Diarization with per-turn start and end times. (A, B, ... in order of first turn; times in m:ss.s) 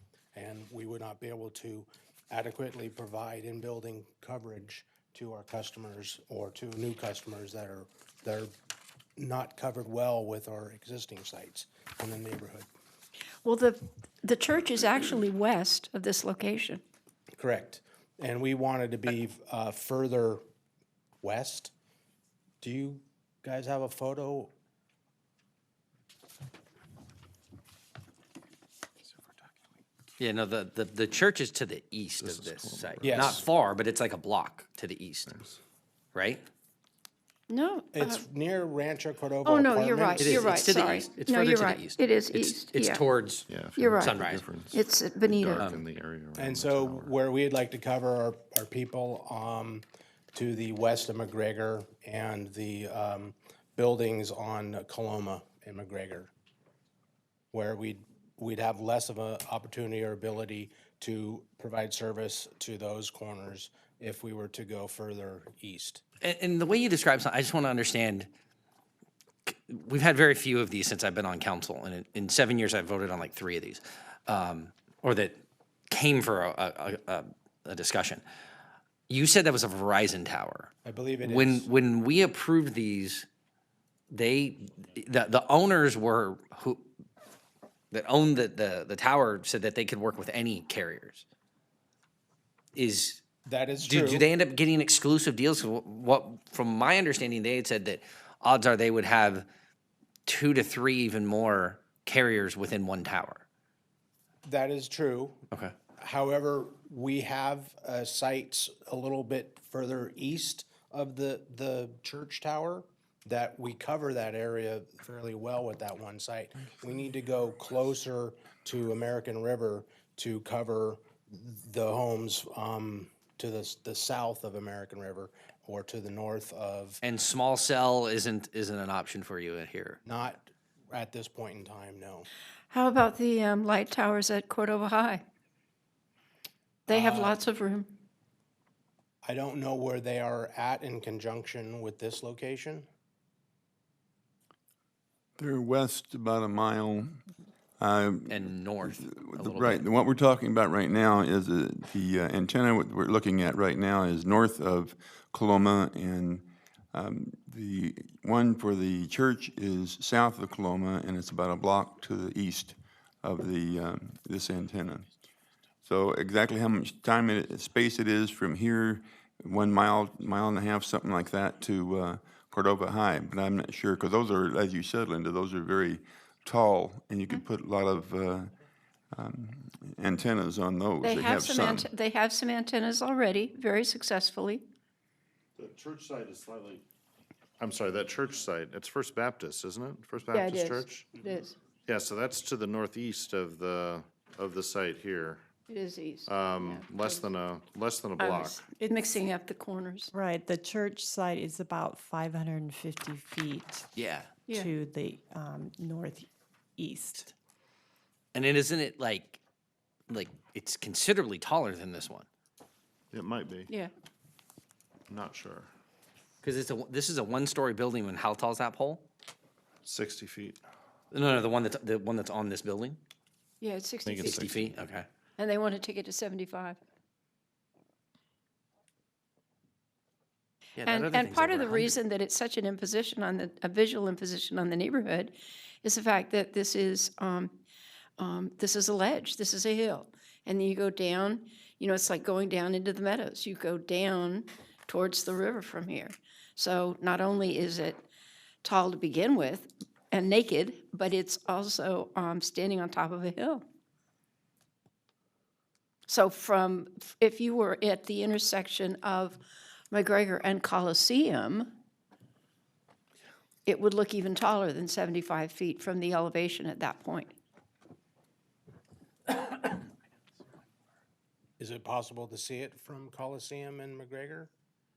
0:00.3-0:08.5 A
0:09.2-0:12.7 A
0:13.4-0:16.8 B
0:17.4-0:20.4 A
0:21.2-0:21.7 A
0:22.6-0:24.5 A
0:30.2-0:35.3 C
0:32.2-0:33.5 D
0:33.0-0:33.4 A
0:35.3-0:35.6 D
0:36.1-0:36.4 C
0:37.5-0:38.3 B
0:37.9-0:40.5 A
0:39.4-0:43.0 B
0:40.2-0:43.5 C
0:43.5-0:47.1 D
0:43.8-0:45.6 B
0:44.0-0:44.4 C
0:45.5-0:45.8 C
0:46.4-0:56.3 A
0:57.5-1:06.0 A
1:06.2-1:08.3 C
1:09.5-1:15.4 C
1:15.9-1:18.2 C
1:19.1-1:23.3 C
1:20.8-1:21.7 A
1:24.1-1:26.9 C
1:27.9-1:31.2 C
1:32.8-1:33.2 C
1:33.5-1:34.3 A
1:33.8-1:39.5 C
1:40.3-1:43.4 C
1:44.4-1:45.4 A
1:46.0-2:07.0 A
2:07.0-2:10.0 C
2:10.0-2:12.3 A
2:12.7-2:15.2 B
2:16.9-2:17.9 B
2:16.9-2:17.4 A
2:19.2-2:22.9 A
2:25.4-2:27.2 E
2:27.8-2:45.1 E
2:28.3-2:29.9 C
2:45.9-2:58.5 E
2:59.1-3:01.9 E
3:01.0-3:04.6 B
3:05.6-3:06.8 D
3:07.6-3:11.2 D
3:10.3-3:11.6 B
3:11.9-3:15.4 D
3:15.7-3:17.3 B
3:16.3-3:18.7 D
3:18.2-3:20.1 B
3:18.8-3:19.2 F
3:20.1-3:23.9 F
3:24.0-3:24.3 C
3:24.5-3:27.3 F
3:28.3-3:29.4 C
3:30.1-3:32.3 C
3:33.1-3:33.7 D
3:35.1-3:35.7 D
3:36.4-3:39.1 C
3:39.8-3:40.6 D
3:41.1-3:43.0 C
3:43.6-3:44.4 B
3:44.0-3:44.8 D
3:44.3-3:45.1 C
3:45.4-3:46.8 B
3:50.8-3:52.0 C
3:50.8-3:57.6 B
3:58.2-4:08.0 B
4:08.6-4:13.6 B
4:16.1-4:21.7 B
4:23.7-4:27.3 B
4:31.6-4:34.5 A